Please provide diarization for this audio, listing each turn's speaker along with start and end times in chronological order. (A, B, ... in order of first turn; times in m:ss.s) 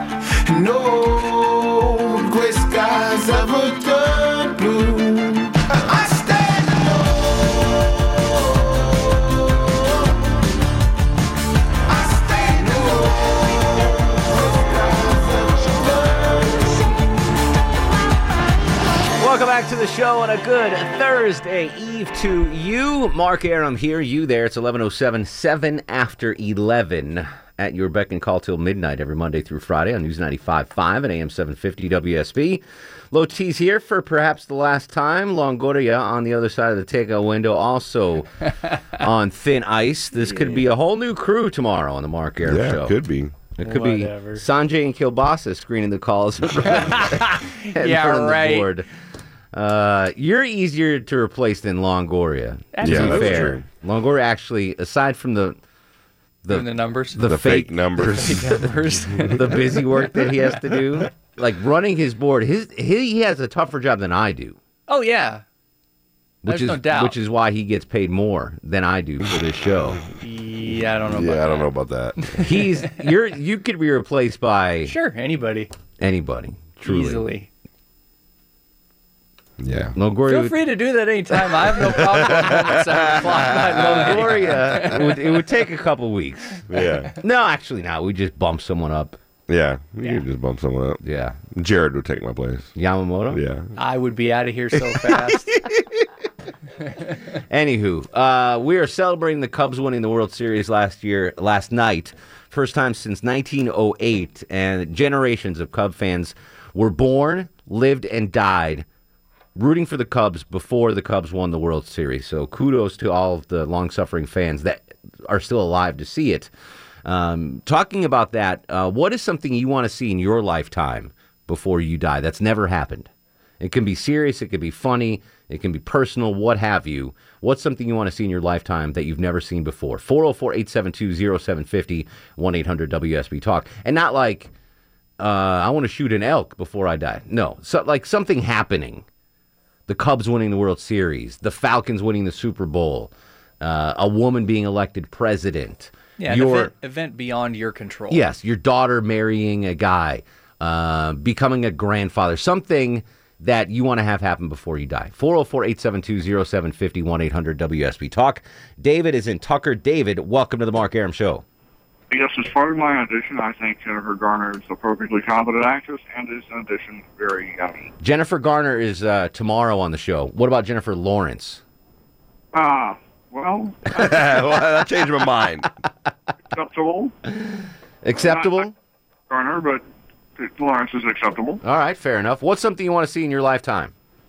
0:00.5-0:10.2 A
0:11.9-0:17.0 A
0:19.2-0:38.3 B
0:39.0-0:42.9 B
0:42.4-0:43.5 C
0:43.6-0:48.9 B
0:43.6-0:44.4 D
0:46.7-0:48.7 D
0:49.5-0:55.6 B
0:52.7-0:53.6 D
0:52.8-0:53.6 C
0:56.4-0:58.6 B
0:56.5-0:57.2 D
0:57.2-0:58.3 C
0:58.0-1:00.2 D
0:59.2-1:04.6 B
1:04.9-1:05.4 D
1:06.4-1:10.0 B
1:06.5-1:07.2 D
1:10.2-1:11.7 D
1:11.0-1:12.2 C
1:12.2-1:13.0 D
1:12.4-1:14.9 B
1:14.8-1:15.7 D
1:16.0-1:17.3 B
1:16.8-1:17.5 D
1:19.6-1:20.0 C
1:20.0-1:20.6 B
1:20.3-1:25.3 D
1:23.8-1:26.6 B
1:26.7-1:27.1 C
1:27.2-1:29.2 B
1:29.5-1:31.0 C
1:31.0-1:31.4 B
1:31.5-1:32.7 C
1:32.8-1:33.4 B
1:33.3-1:33.7 C
1:33.8-1:35.5 D
1:36.8-1:37.2 D
1:37.5-1:48.9 B
1:49.6-1:56.5 B
1:57.0-2:03.1 B
2:03.6-2:14.5 B
2:15.2-2:19.1 B
2:19.9-2:26.7 B
2:26.2-2:28.3 D
2:28.1-2:41.4 B
2:42.1-2:47.9 E
2:48.0-2:51.6 B
2:52.5-2:54.2 E
2:54.0-2:55.7 C
2:56.5-2:57.1 E
2:58.0-2:58.7 B
2:58.2-2:58.7 E
2:59.3-2:59.8 E
3:00.4-3:01.6 E
3:01.6-3:03.9 B